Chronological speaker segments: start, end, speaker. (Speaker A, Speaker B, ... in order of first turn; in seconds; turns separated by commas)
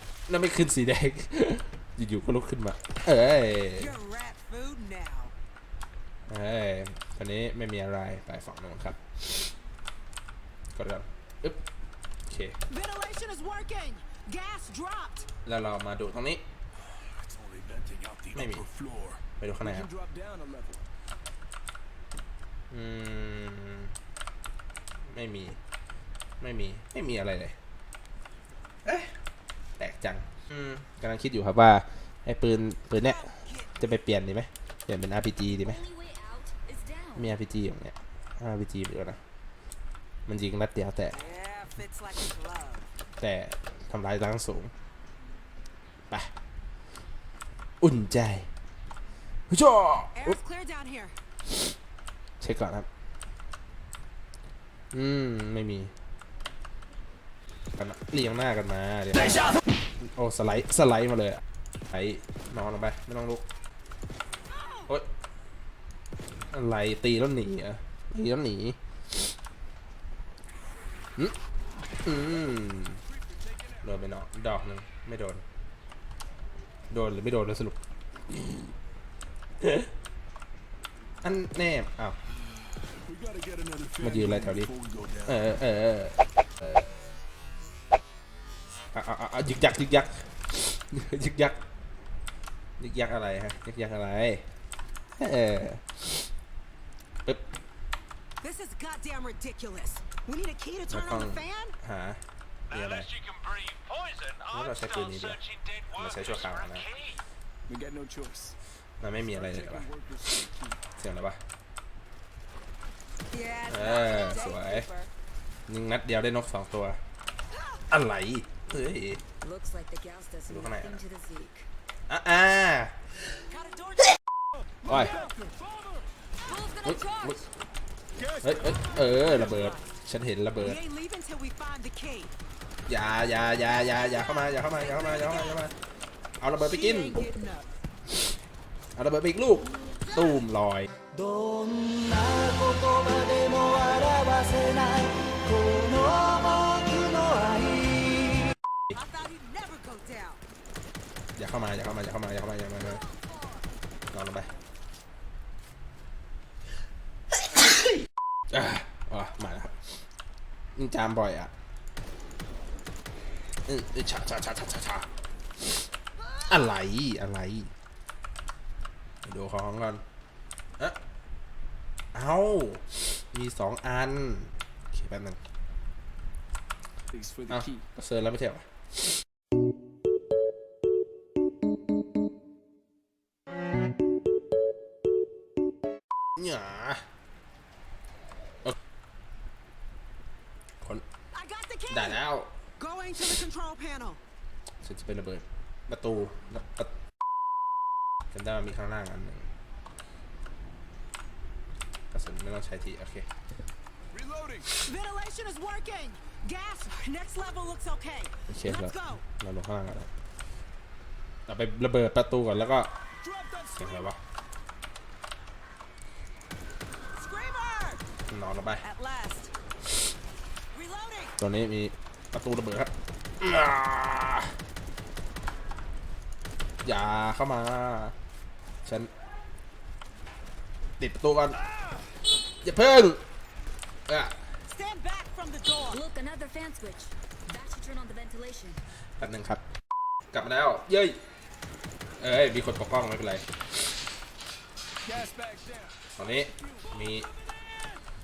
Speaker A: 0.3-4.0, Speaker B: 3.8-5.3, Speaker A: 6.3-9.5, Speaker A: 10.7-11.6, Speaker A: 12.2-12.6, Speaker B: 12.7-15.3, Speaker A: 15.4-16.5, Speaker C: 16.8-20.8, Speaker A: 18.3-18.6, Speaker A: 19.4-19.9, Speaker A: 22.7-23.9, Speaker A: 25.1-25.6, Speaker A: 26.4-27.6, Speaker A: 28.8-29.1, Speaker A: 29.8-35.8, Speaker B: 33.0-34.0, Speaker D: 35.5-37.3, Speaker A: 37.1-39.2, Speaker A: 40.2-41.2, Speaker B: 41.1-42.9, Speaker A: 43.2-44.7, Speaker A: 47.8-48.5, Speaker A: 49.5-50.4, Speaker B: 50.1-51.1, Speaker A: 52.4-52.9, Speaker A: 54.9-55.9, Speaker A: 57.8-63.4, Speaker B: 64.5-64.9, Speaker A: 66.5-69.3, Speaker A: 72.0-73.0, Speaker C: 72.1-73.9, Speaker A: 73.8-75.4, Speaker A: 76.9-78.7, Speaker A: 79.6-79.9, Speaker A: 81.2-82.2, Speaker C: 82.9-85.6, Speaker A: 84.0-84.7, Speaker A: 85.2-86.7, Speaker A: 88.9-91.6, Speaker A: 92.8-94.5, Speaker A: 95.2-96.3, Speaker B: 98.4-101.8, Speaker A: 100.9-103.1, Speaker E: 102.7-107.2, Speaker A: 104.5-105.4, Speaker A: 105.9-106.9, Speaker C: 107.7-108.5, Speaker A: 109.0-109.9, Speaker C: 109.2-110.8, Speaker A: 111.0-111.4, Speaker B: 113.3-115.1, Speaker A: 113.7-114.9, Speaker A: 115.7-117.0, Speaker B: 117.5-117.8, Speaker A: 117.9-119.2, Speaker D: 119.4-121.7, Speaker A: 120.5-121.0, Speaker A: 122.1-123.0, Speaker B: 123.5-124.2, Speaker C: 124.5-126.1, Speaker A: 124.8-125.2, Speaker B: 124.9-125.3, Speaker D: 126.4-127.5, Speaker A: 126.8-127.4, Speaker C: 128.2-129.7, Speaker A: 128.4-130.8, Speaker B: 128.6-129.9, Speaker B: 130.6-132.3, Speaker A: 132.9-135.7, Speaker B: 133.5-135.7, Speaker A: 136.4-137.3, Speaker B: 136.6-137.7, Speaker A: 138.1-138.4, Speaker A: 138.9-140.9, Speaker F: 141.1-148.5, Speaker B: 148.9-150.4, Speaker A: 151.3-153.0, Speaker D: 152.8-153.3, Speaker A: 154.1-154.5, Speaker A: 157.6-159.7, Speaker C: 159.1-160.0, Speaker A: 160.8-161.5, Speaker A: 163.7-165.8, Speaker A: 166.5-167.7, Speaker A: 169.2-170.0, Speaker A: 172.1-175.4, Speaker C: 177.1-177.8, Speaker A: 177.5-179.2, Speaker A: 186.3-187.0, Speaker B: 191.3-192.2, Speaker A: 191.9-192.6, Speaker B: 192.8-194.2, Speaker A: 194.8-196.9, Speaker A: 198.3-199.5, Speaker A: 202.1-203.3, Speaker C: 204.1-204.8, Speaker B: 204.8-209.2, Speaker A: 208.5-210.1, Speaker A: 211.5-212.9, Speaker C: 213.2-214.1, Speaker A: 213.8-214.2, Speaker B: 217.1-218.0, Speaker A: 218.3-218.8, Speaker B: 218.8-219.5, Speaker B: 220.7-221.4, Speaker A: 221.4-224.6, Speaker A: 226.8-228.1, Speaker A: 228.8-229.1, Speaker A: 231.0-231.6, Speaker C: 231.7-232.0, Speaker A: 232.6-233.2, Speaker A: 234.1-234.5, Speaker B: 234.7-236.0, Speaker D: 235.8-238.8, Speaker A: 239.2-239.6, Speaker A: 240.3-241.2, Speaker A: 242.2-243.9, Speaker C: 245.0-248.0, Speaker A: 246.1-247.3